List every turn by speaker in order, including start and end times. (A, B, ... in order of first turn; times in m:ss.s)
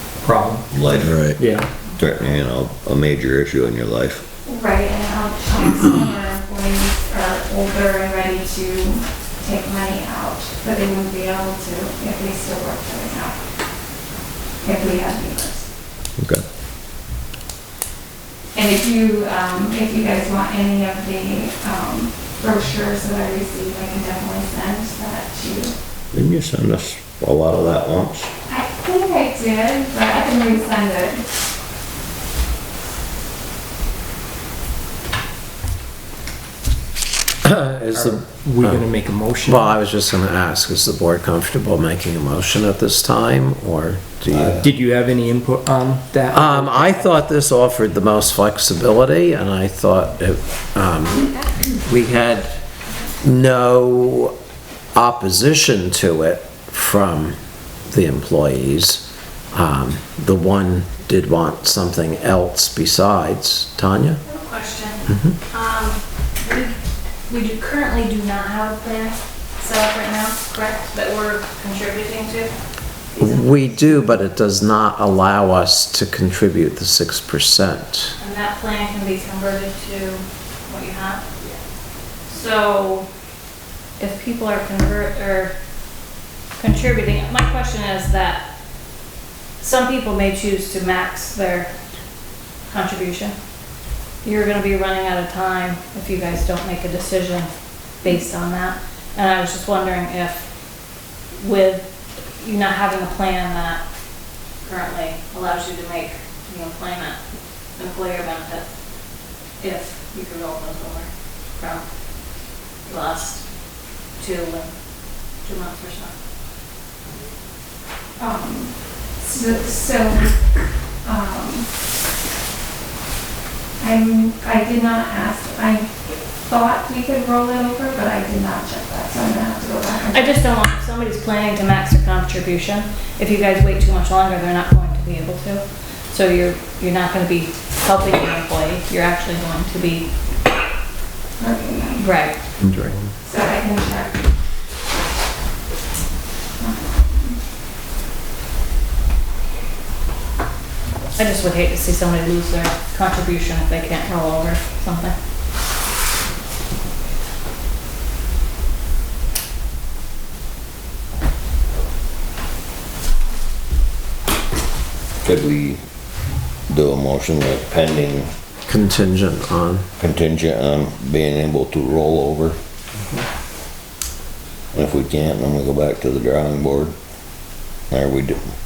0:00.2-0:00.7 A
0:00.7-0:01.3 B
0:01.4-0:01.7 A
0:01.9-0:04.2 B
0:04.4-0:13.4 C
0:14.6-0:15.7 C
0:16.2-0:16.4 B
0:18.6-0:25.7 C
0:26.1-0:28.3 B
0:28.5-0:31.2 C
0:37.5-0:38.8 D
0:37.7-0:39.8 A
0:39.4-0:44.6 D
0:44.3-0:44.7 B
0:44.6-0:47.1 A
0:46.3-0:52.5 D
0:53.2-0:54.4 D
0:54.9-0:57.4 D
0:57.9-1:04.2 D
1:04.2-1:06.8 E
1:07.3-1:12.5 E
1:13.2-1:13.5 E
1:13.2-1:18.2 D
1:18.2-1:21.5 E
1:22.3-1:23.1 E
1:24.0-1:25.5 E
1:26.6-1:28.5 E
1:29.6-1:31.7 E
1:32.7-1:33.3 E
1:34.2-1:40.5 E
1:41.4-1:41.8 E
1:42.4-1:43.8 E
1:44.6-1:47.2 E
1:47.8-1:48.7 E
1:49.6-1:51.8 E
1:52.8-1:53.4 E
1:54.2-1:54.7 E
1:55.4-1:56.1 E
1:58.2-2:00.4 C
2:01.0-2:01.7 C
2:03.8-2:05.9 C
2:06.4-2:10.4 C
2:10.1-2:20.1 E
2:21.4-2:22.0 C
2:22.0-2:22.4 E
2:22.6-2:23.1 A
2:23.2-2:24.2 C
2:26.6-2:27.4 C
2:31.2-2:35.2 E
2:45.2-2:45.8 B
2:46.7-2:48.3 B
2:48.7-2:49.9 D
2:50.0-2:52.6 B
2:54.7-2:57.0 B
2:57.9-2:58.4 B